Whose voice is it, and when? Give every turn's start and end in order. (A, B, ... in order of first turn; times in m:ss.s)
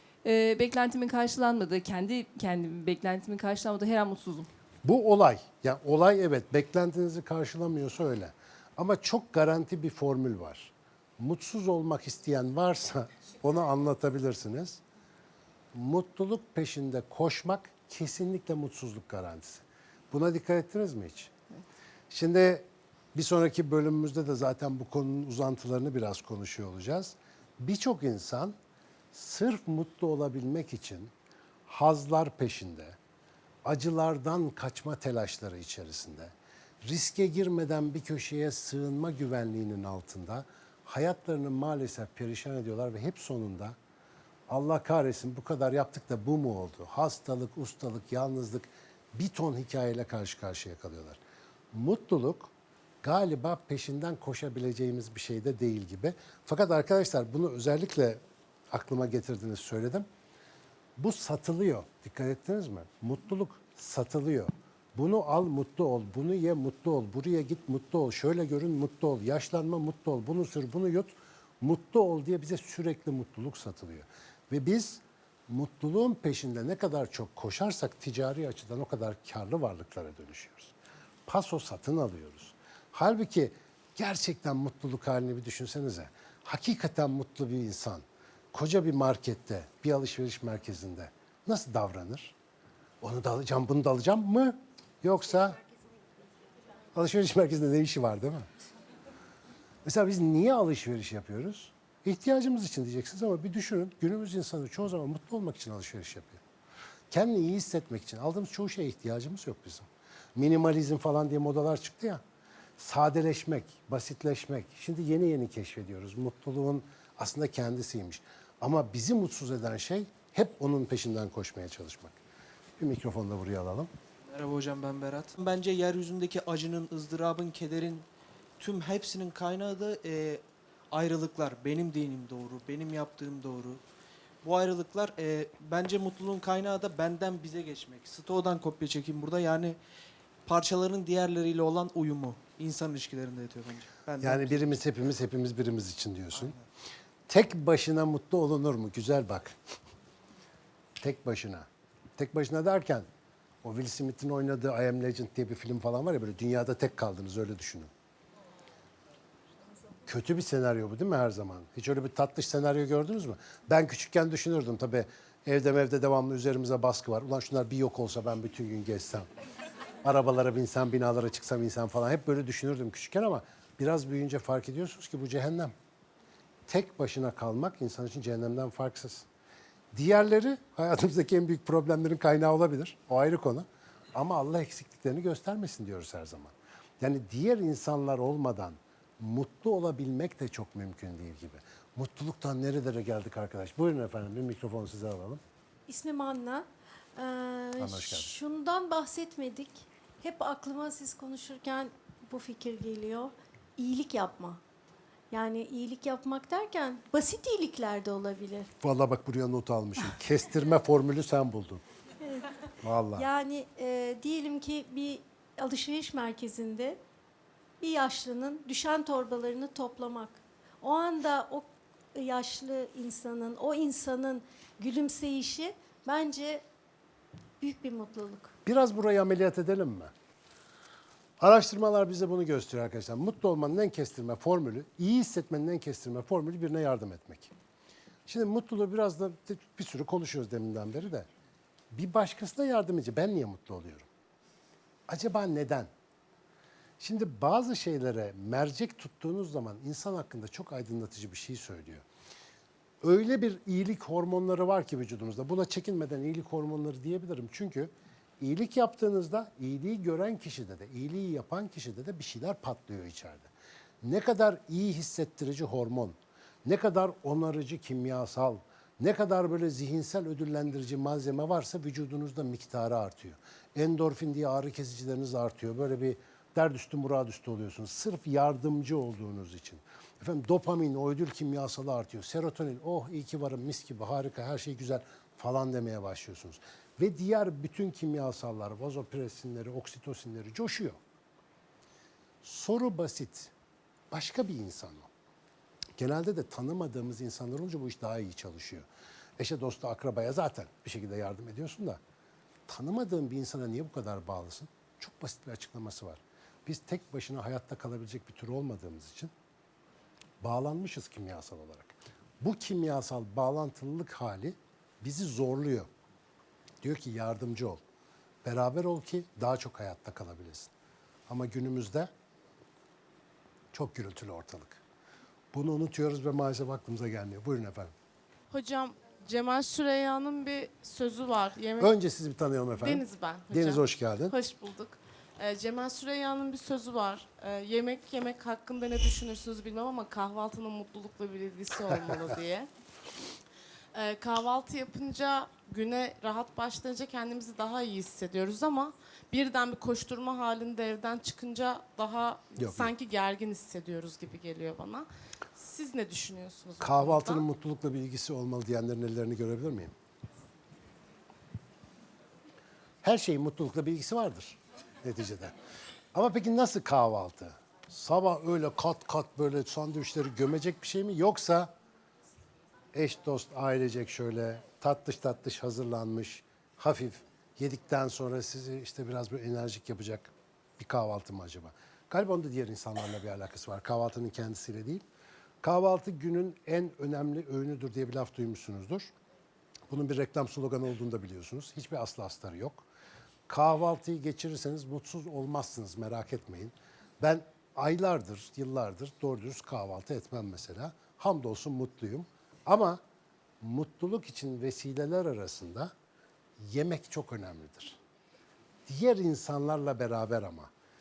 0:00.2-0:04.5 A
0:04.8-0:14.8 B
0:15.7-0:21.3 B
0:22.1-0:28.6 B
0:29.1-0:31.1 B
0:31.7-0:33.0 B
0:33.6-0:43.8 B
0:44.5-0:51.2 B
0:51.7-0:52.5 B
0:53.0-1:00.0 B
1:01.0-1:20.7 B
1:21.3-1:32.3 B
1:33.0-1:35.6 B
1:36.9-1:38.5 B
1:39.8-1:46.4 B
1:47.1-1:52.2 B
1:52.8-2:02.2 B
2:02.8-2:03.9 B
2:04.3-2:08.1 C
2:08.6-2:13.8 C
2:14.4-2:19.8 C
2:20.4-2:24.8 C
2:24.2-2:26.6 B
2:26.4-2:26.6 C
2:27.3-2:29.6 B
2:31.0-2:33.1 B
2:33.6-2:37.9 B
2:40.1-2:49.3 B
2:50.0-2:55.7 B
2:56.7-2:59.3 B
2:59.9-3:15.4 B
3:15.9-3:24.6 D
3:17.8-3:18.3 B
3:25.3-3:28.7 D
3:28.8-3:31.8 B
3:32.2-3:32.5 D
3:32.8-3:33.3 B
3:33.1-3:37.0 D
3:37.8-3:46.6 D
3:47.6-3:48.5 D
3:48.6-3:50.1 B
3:51.4-3:57.5 B
3:58.2-4:01.3 B
4:01.9-4:04.1 B
4:05.1-4:05.9 B
4:07.0-4:12.0 B
4:13.0-4:23.5 B
4:24.0-4:51.0 B
4:52.4-4:53.5 B
4:54.1-4:55.1 B
4:56.0-4:58.9 B
4:59.4-5:02.0 B
5:02.7-5:09.3 B
5:10.4-5:15.9 B
5:16.8-5:17.8 B
5:18.4-5:20.7 B
5:21.3-5:22.1 B
5:23.7-5:24.8 B
5:25.5-5:27.9 B
5:28.5-5:31.9 E
5:31.8-5:34.4 B
5:32.8-5:42.7 E
5:43.9-5:57.4 E
5:52.6-5:52.9 B
5:56.8-5:59.9 B
6:03.0-6:05.5 B
6:06.1-6:11.7 B
6:12.9-6:25.0 B
6:25.6-6:29.1 B
6:29.9-6:32.9 B
6:33.5-6:43.0 B
6:43.6-6:45.9 B
6:46.6-6:48.0 B
6:48.9-6:50.7 B